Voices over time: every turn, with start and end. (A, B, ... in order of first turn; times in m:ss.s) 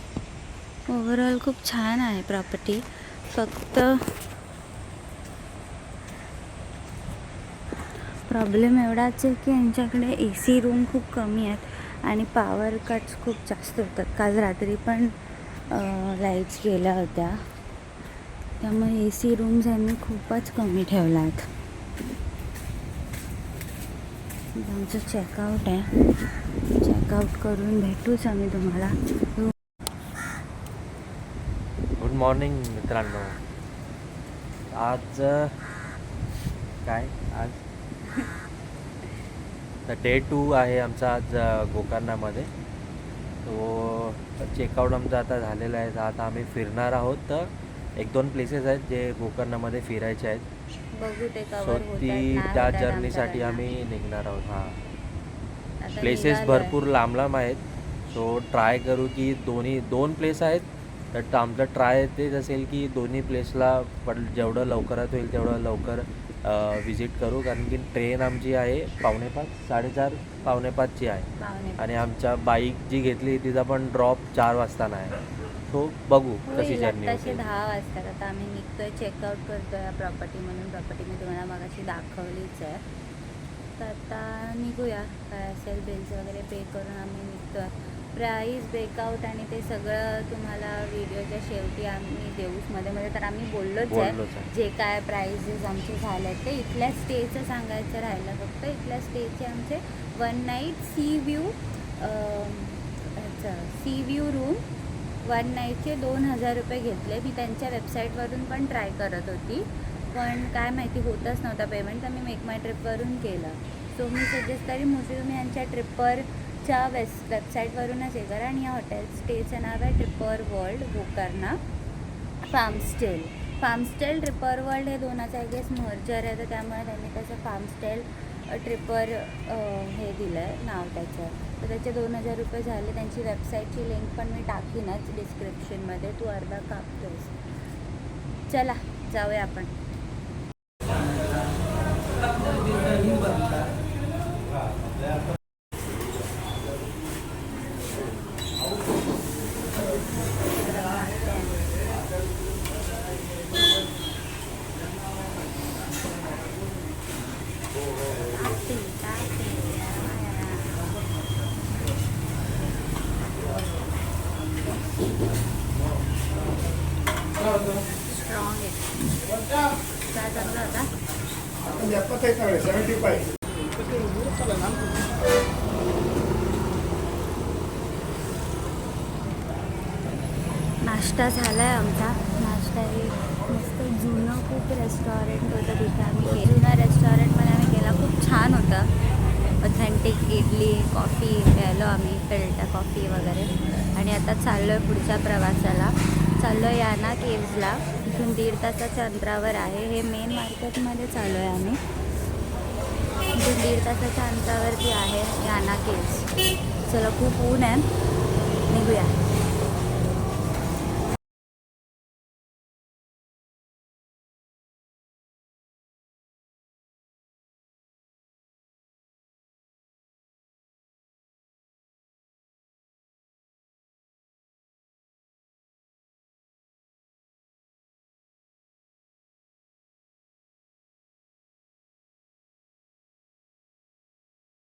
0:00.9-0:04.0 A
0:08.3-0:15.1 A
0:15.7-0:17.4 A
0:18.6-0:21.4 A
0:24.5-0:25.9 A
0:26.8-0:29.5 A
0:32.0-0:33.4 B
0:34.7-0:35.5 B
0:36.8-0:37.6 B
0:39.9-0:42.5 B
0:43.4-0:50.4 B
0:50.9-0:53.7 A
0:51.6-0:54.8 B
0:55.8-0:56.8 A
0:56.0-1:17.5 B
1:11.4-1:12.1 A
1:16.4-1:22.8 A
1:23.8-1:44.6 A
1:33.9-1:34.5 B
1:45.2-2:01.6 A
2:02.4-2:17.4 A
2:18.5-2:19.7 A
2:30.4-2:31.8 A
2:38.1-2:40.9 A
2:47.9-2:49.0 A
2:49.9-2:50.9 A
3:00.8-3:08.9 A
3:09.6-3:21.8 A
3:23.3-3:26.3 A
3:26.8-3:27.9 A
3:28.7-3:29.2 A